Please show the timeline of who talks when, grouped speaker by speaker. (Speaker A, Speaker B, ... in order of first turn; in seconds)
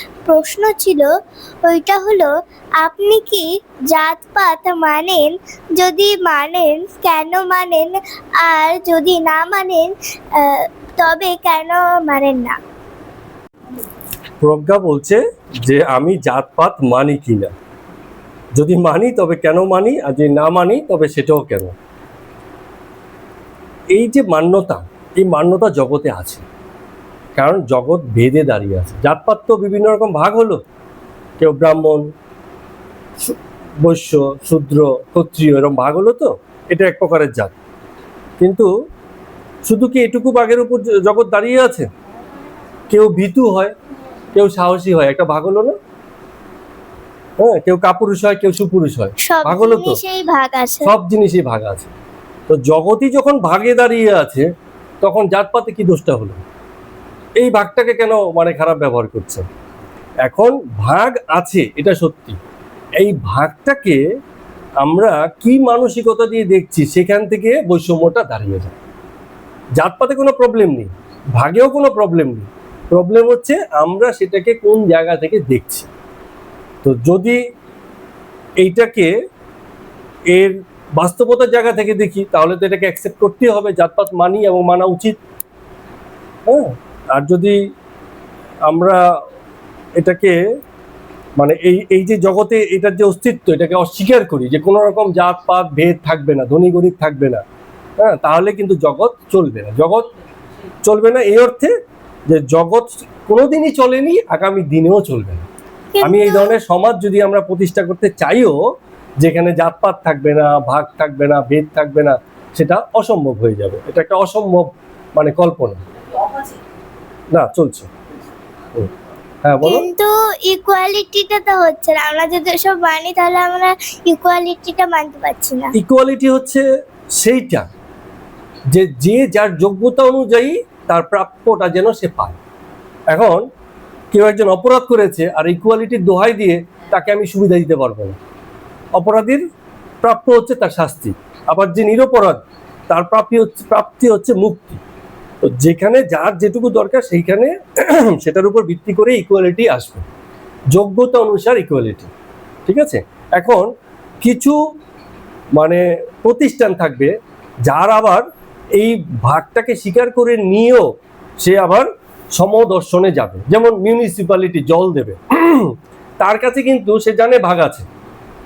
Speaker A: 0.3-1.1, 1.6-12.6, 49.2-50.9, 105.9-106.5, 119.6-125.7
Speaker B: 14.4-17.5, 18.6-21.8, 23.9-26.4, 27.4-30.6, 31.4-32.1, 33.3-37.5, 38.4-38.7, 39.7-41.9, 42.9-43.7, 44.3-45.8, 47.4-50.0, 50.8-51.9, 52.5-54.5, 55.0-56.4, 57.4-59.5, 60.3-62.4, 63.0-64.0, 64.8-68.8, 69.8-75.9, 76.8-77.4, 78.6-79.1, 80.3-85.2, 86.5-87.6, 88.7-89.0, 90.0-90.4, 91.4-97.4, 98.0-100.1, 100.8-101.7, 102.3-105.5, 106.0-108.6, 109.2-115.8, 117.3-117.9, 119.4-119.9, 125.8-126.7, 127.2-127.7, 128.7-132.4, 133.1-133.4, 134.1-138.2, 139.0-139.4, 140.0-144.8, 145.4-150.1, 150.7-152.1, 152.7-153.7, 154.2-154.6, 155.6-157.2, 157.7-158.2, 158.8-167.9